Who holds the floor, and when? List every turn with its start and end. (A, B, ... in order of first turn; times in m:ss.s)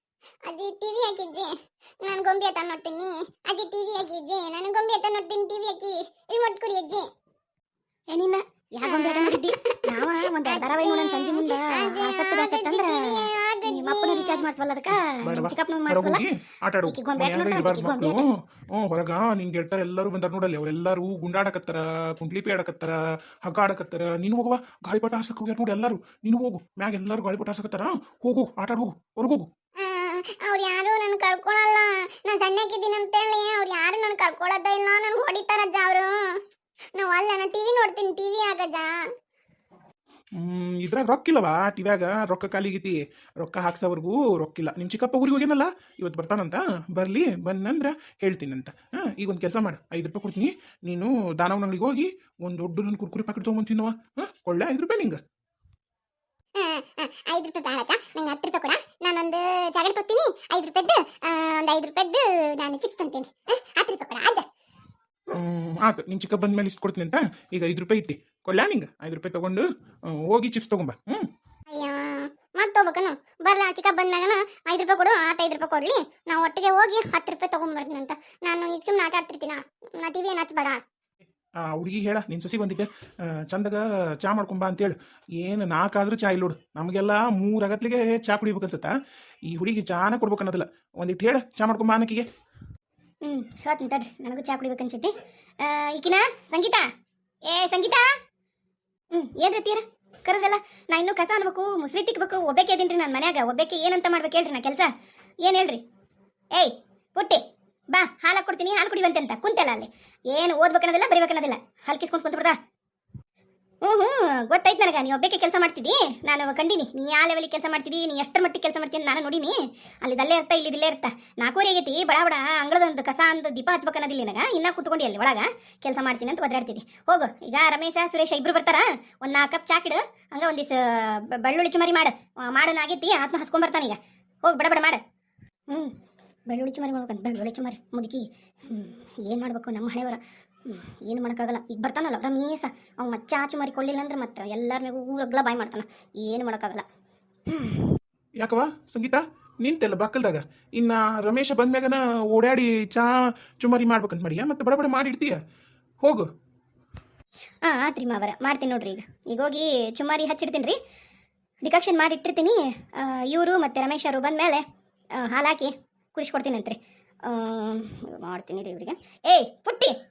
0:00.4-0:07.1 A
0:08.1-0:16.2 B
0:08.8-0:14.4 A
0:14.9-0:29.5 C
0:16.8-0:18.2 B
0:29.8-0:36.4 A
0:37.0-0:39.1 A
0:40.4-0:55.2 C
0:56.6-1:04.5 A
1:05.3-1:11.3 C
1:11.7-1:20.8 A
1:21.6-1:28.9 C
1:29.5-1:32.2 C
1:33.2-1:36.8 B
1:37.5-1:38.1 B
1:39.1-1:44.9 B
1:45.4-1:45.8 B
1:46.5-1:52.6 B
1:53.8-2:15.0 B
2:15.7-2:15.9 B
2:16.5-2:26.8 B
2:27.5-2:28.0 B
2:28.4-2:35.4 C
2:36.0-2:36.3 C
2:37.6-2:40.8 B
2:41.6-2:44.6 B
2:45.2-2:50.0 B